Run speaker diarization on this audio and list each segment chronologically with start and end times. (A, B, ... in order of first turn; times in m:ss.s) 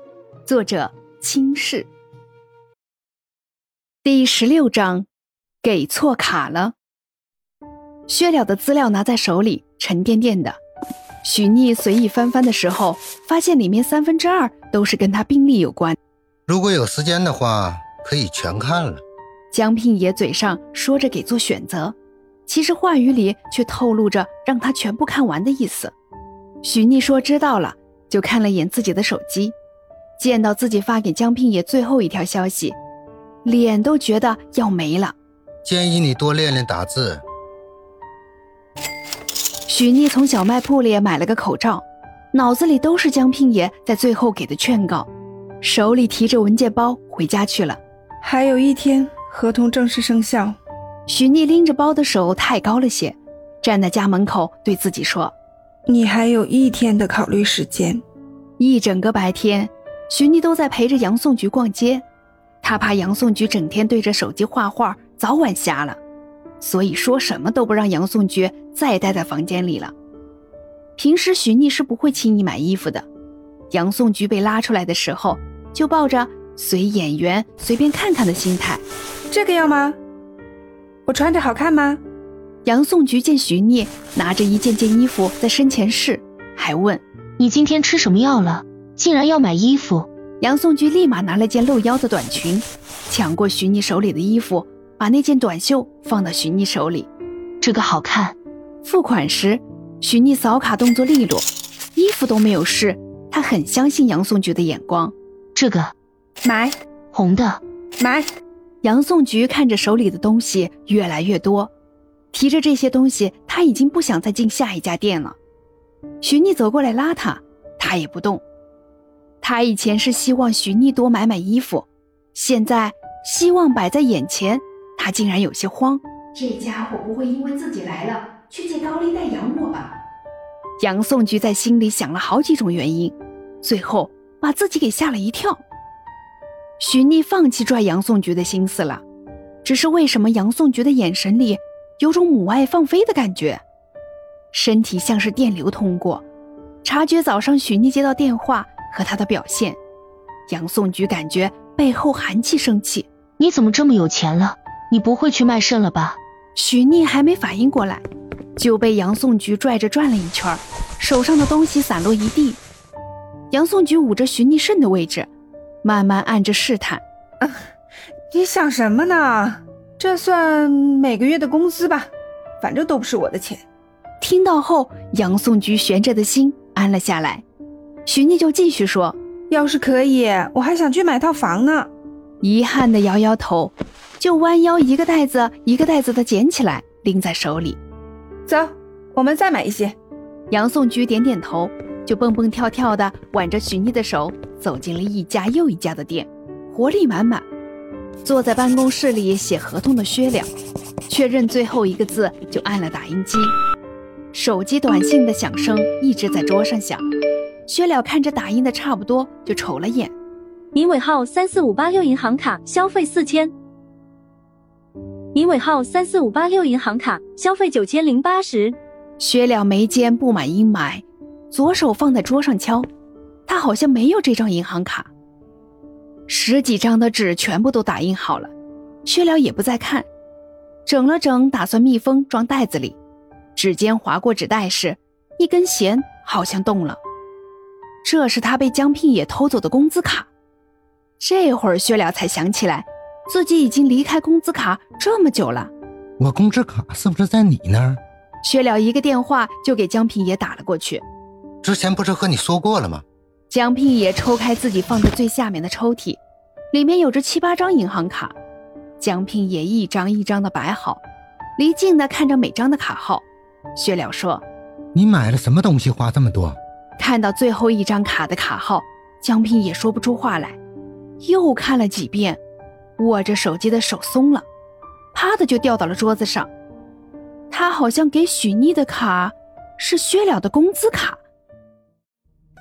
0:00.4-0:01.9 A
0:04.0-0:05.1 A
0:05.6-0:06.8 A
0:08.1-0:10.6 A
0:11.2-0:16.0 A
0:16.5-0:19.0 B
0:19.5-0:22.0 A
0:22.5-0:25.9 A
0:26.6-0:29.6 A
0:30.2-0:32.8 A
0:33.4-0:35.2 A
0:35.6-0:37.2 B
0:39.7-0:45.1 A
0:45.6-0:47.8 A
0:48.2-0:50.6 C
0:51.1-0:55.3 A
0:55.9-0:58.0 C
0:58.6-1:02.0 A
1:02.6-1:06.0 A
1:06.6-1:09.9 A
1:11.0-1:13.1 A
1:13.7-1:18.8 A
1:19.3-1:20.0 C
1:21.1-1:22.0 C
1:22.6-1:27.0 A
1:27.4-1:30.1 D
1:30.4-1:37.1 A
1:37.6-1:38.4 D
1:38.8-1:45.1 A
1:45.6-1:45.9 D
1:46.4-1:46.8 C
1:47.1-1:47.6 D
1:48.0-1:48.3 C
1:48.8-1:51.7 A
1:52.3-1:55.4 A
1:56.2-1:58.4 A
1:59.4-2:09.9 A
2:10.8-2:15.6 A
2:16.8-2:19.0 A
2:19.6-2:23.6 A
2:24.5-2:26.2 A
2:26.8-2:29.8 A
2:30.5-2:33.1 A
2:33.4-2:36.2 D
2:36.6-2:38.0 A
2:38.6-2:42.6 A
2:43.5-2:45.3 A
2:45.8-2:47.0 A
2:47.4-2:47.7 C
2:48.3-2:52.1 C
2:52.6-2:53.6 C
2:54.2-2:57.4 A
2:58.1-2:59.2 A
2:59.5-3:01.9 C
3:02.4-3:07.8 A
3:08.5-3:10.0 C
3:10.5-3:17.4 A
3:18.2-3:20.5 A
3:21.1-3:23.5 A
3:24.3-3:27.0 A
3:27.7-3:30.1 A
3:30.8-3:33.5 E
3:35.4-3:38.8 E
3:39.2-3:42.9 A
3:43.5-3:45.1 A
3:46.3-3:48.5 A
3:49.1-3:50.1 A
3:50.9-3:53.0 A
3:53.6-3:57.0 A
3:58.0-4:00.3 A
4:01.2-4:05.7 A
4:06.2-4:08.0 B
4:08.4-4:11.0 A
4:11.6-4:13.0 B
4:13.5-4:16.2 A
4:16.7-4:18.3 A
4:19.0-4:21.0 A
4:21.6-4:23.2 A
4:23.8-4:24.4 A
4:25.0-4:26.6 B
4:27.0-4:30.6 A
4:31.2-4:32.4 A
4:33.0-4:34.4 A
4:35.1-4:36.5 A
4:37.5-4:41.2 A